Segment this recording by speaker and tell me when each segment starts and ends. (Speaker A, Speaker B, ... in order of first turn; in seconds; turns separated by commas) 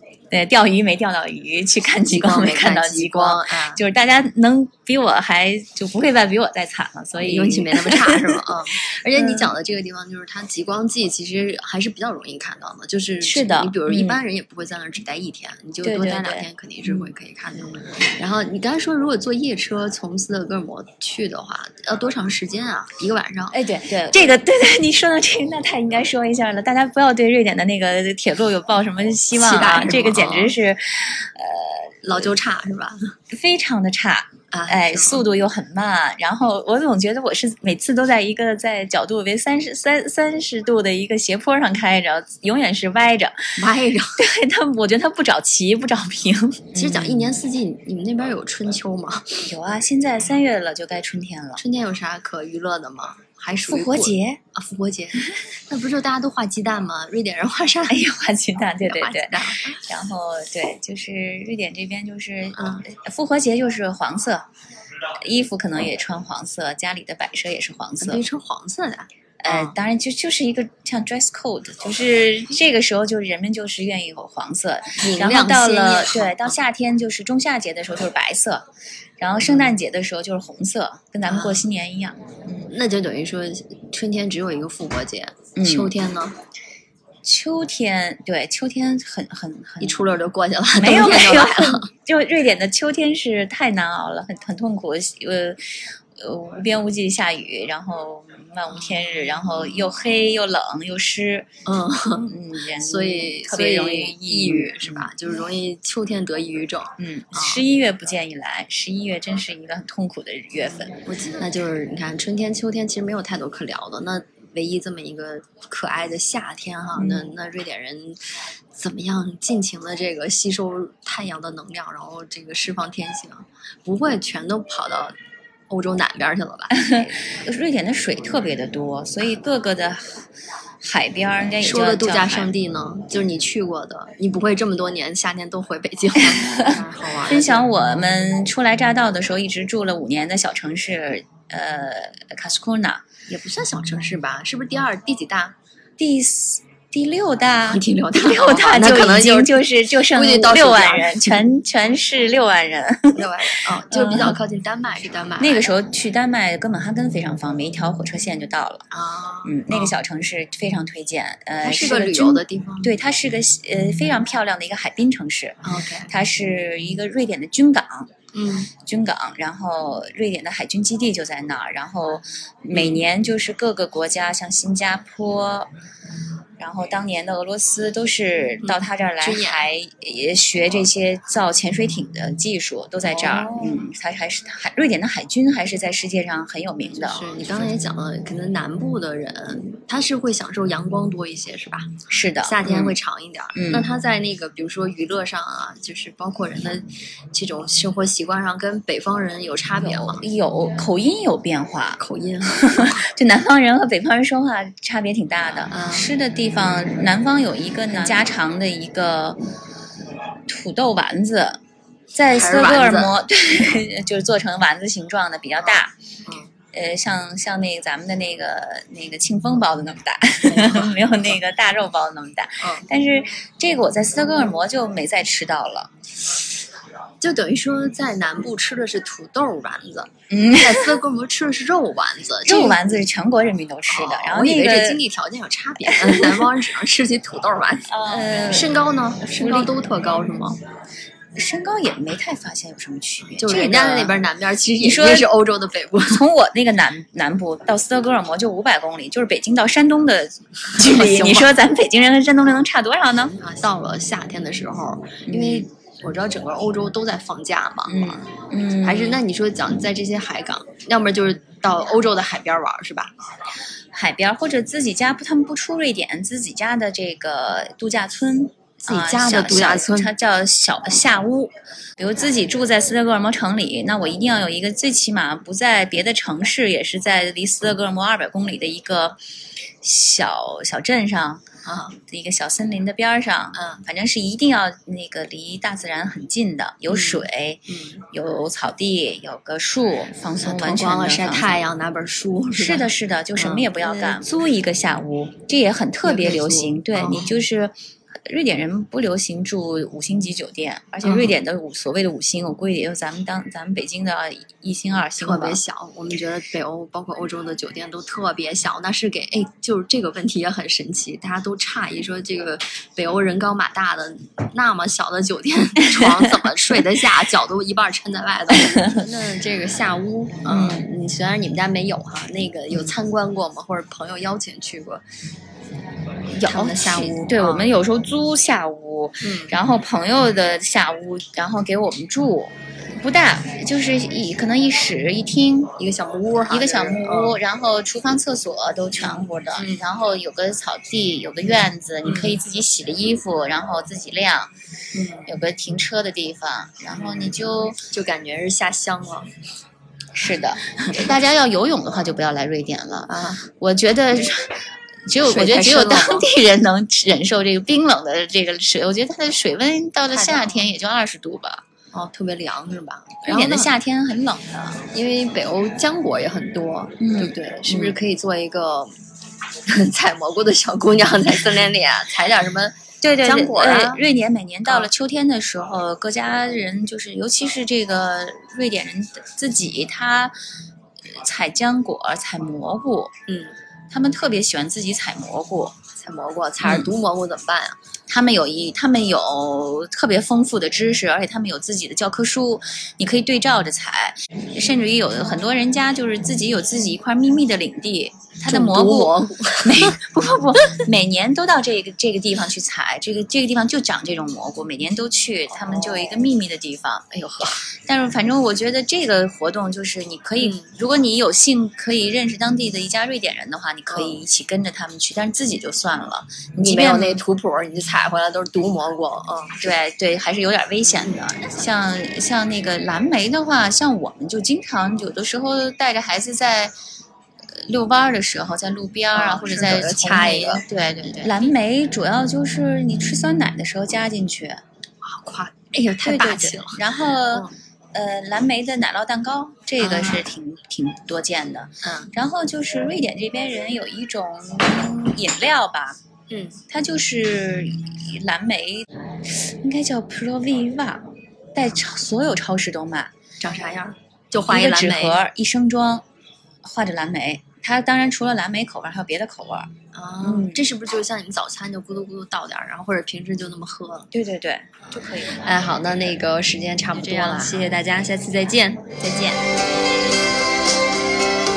Speaker A: 0.3-8.5, Speaker B: 2.1-3.8, Speaker B: 7.2-23.6, Speaker A: 9.1-9.5, Speaker A: 13.2-14.2, Speaker A: 15.8-17.1, Speaker A: 23.5-32.3, Speaker B: 29.4-30.5, Speaker B: 32.0-33.1, Speaker A: 33.3-43.5, Speaker B: 34.5-35.2, Speaker B: 43.6-44.2, Speaker A: 44.2-47.3, Speaker B: 46.7-49.5, Speaker A: 49.5-51.6, Speaker B: 51.6-58.0, Speaker A: 53.6-54.4, Speaker A: 57.9-64.5, Speaker B: 58.8-59.8, Speaker B: 62.5-62.8, Speaker A: 65.2-68.2, Speaker B: 68.0-69.8, Speaker A: 69.4-78.7, Speaker B: 75.0-76.5, Speaker A: 79.2-82.7, Speaker B: 79.4-79.8, Speaker B: 81.2-81.6, Speaker B: 82.6-86.4, Speaker A: 85.5-85.9, Speaker A: 87.2-90.1, Speaker B: 89.8-91.9, Speaker A: 90.7-95.6, Speaker A: 96.2-101.5, Speaker B: 98.7-99.8, Speaker B: 101.7-107.6, Speaker A: 102.3-105.1, Speaker A: 107.0-111.0, Speaker B: 110.6-118.2, Speaker A: 117.0-117.3, Speaker B: 118.7-125.1, Speaker B: 125.7-127.1, Speaker A: 126.7-130.2, Speaker A: 130.8-132.5, Speaker B: 131.6-137.6, Speaker A: 136.2-143.0, Speaker B: 143.3-145.5, Speaker A: 146.0-154.4, Speaker B: 147.7-151.5, Speaker B: 153.1-155.7, Speaker A: 155.4-158.8, Speaker B: 158.9-159.9, Speaker A: 159.4-168.1, Speaker B: 161.6-162.9, Speaker B: 165.6-166.1, Speaker B: 168.3-168.7, Speaker A: 168.8-175.7, Speaker B: 172.7-173.0, Speaker A: 176.6-187.6, Speaker B: 178.6-179.7, Speaker B: 183.0-183.9, Speaker B: 186.8-200.2, Speaker A: 192.1-193.0, Speaker A: 193.5-193.9, Speaker A: 199.8-209.4, Speaker B: 202.0-203.0, Speaker B: 205.7-206.1, Speaker B: 207.9-208.3, Speaker A: 210.5-211.6, Speaker A: 212.1-215.9, Speaker B: 212.3-213.1, Speaker B: 216.2-216.5, Speaker A: 216.7-225.9, Speaker B: 220.4-221.0, Speaker B: 222.6-222.8, Speaker B: 227.2-232.8, Speaker A: 230.3-231.0, Speaker A: 232.4-235.0, Speaker B: 233.9-240.6, Speaker A: 235.9-236.4, Speaker A: 237.9-239.7, Speaker A: 241.3-244.2, Speaker B: 243.4-246.2, Speaker A: 244.8-245.3, Speaker A: 246.0-253.4, Speaker B: 250.7-251.5, Speaker B: 253.4-258.3, Speaker A: 255.3-255.7, Speaker A: 257.9-259.2, Speaker B: 258.8-263.1, Speaker A: 263.9-279.2, Speaker B: 268.8-270.1, Speaker A: 279.8-281.4, Speaker B: 281.6-282.0, Speaker A: 282.0-291.6, Speaker B: 283.5-283.8, Speaker B: 286.9-288.0, Speaker B: 290.4-294.2, Speaker A: 292.5-305.6, Speaker B: 296.0-297.3, Speaker B: 301.0-301.4, Speaker B: 305.2-325.0, Speaker A: 315.8-316.5, Speaker A: 318.5-319.0, Speaker A: 320.4-320.9, Speaker A: 326.3-335.7, Speaker B: 326.4-327.7, Speaker B: 329.2-329.5, Speaker B: 335.8-337.4, Speaker A: 336.5-344.5, Speaker B: 339.0-339.9, Speaker B: 342.0-342.4, Speaker B: 344.9-345.3, Speaker A: 345.2-347.8, Speaker B: 346.9-347.3, Speaker B: 347.9-349.3, Speaker A: 350.1-361.6, Speaker B: 353.1-353.4, Speaker B: 355.2-356.2, Speaker B: 360.1-360.7, Speaker B: 361.9-363.7, Speaker A: 363.3-364.8, Speaker B: 364.9-368.9, Speaker A: 367.0-368.0, Speaker B: 369.6-374.0, Speaker A: 373.0-380.3, Speaker A: 381.1-383.1, Speaker B: 383.3-383.5, Speaker A: 383.9-385.8, Speaker B: 385.9-387.8, Speaker A: 386.6-386.9, Speaker A: 388.1-417.2, Speaker B: 398.4-399.9, Speaker B: 405.5-406.2, Speaker B: 407.3-407.6, Speaker B: 410.4-410.7, Speaker B: 413.9-414.2, Speaker B: 416.6-419.7, Speaker A: 419.6-426.7, Speaker B: 420.9-421.5, Speaker A: 427.5-434.6, Speaker B: 429.1-431.3, Speaker B: 435.0-437.5, Speaker A: 436.0-446.0, Speaker B: 439.8-440.3, Speaker B: 441.8-442.1, Speaker B: 446.3-446.6, Speaker A: 446.7-453.1, Speaker B: 453.4-455.2, Speaker A: 454.5-456.0, Speaker A: 456.6-460.6, Speaker B: 459.9-464.1, Speaker A: 464.1-465.4, Speaker B: 465.4-469.4, Speaker A: 467.0-467.6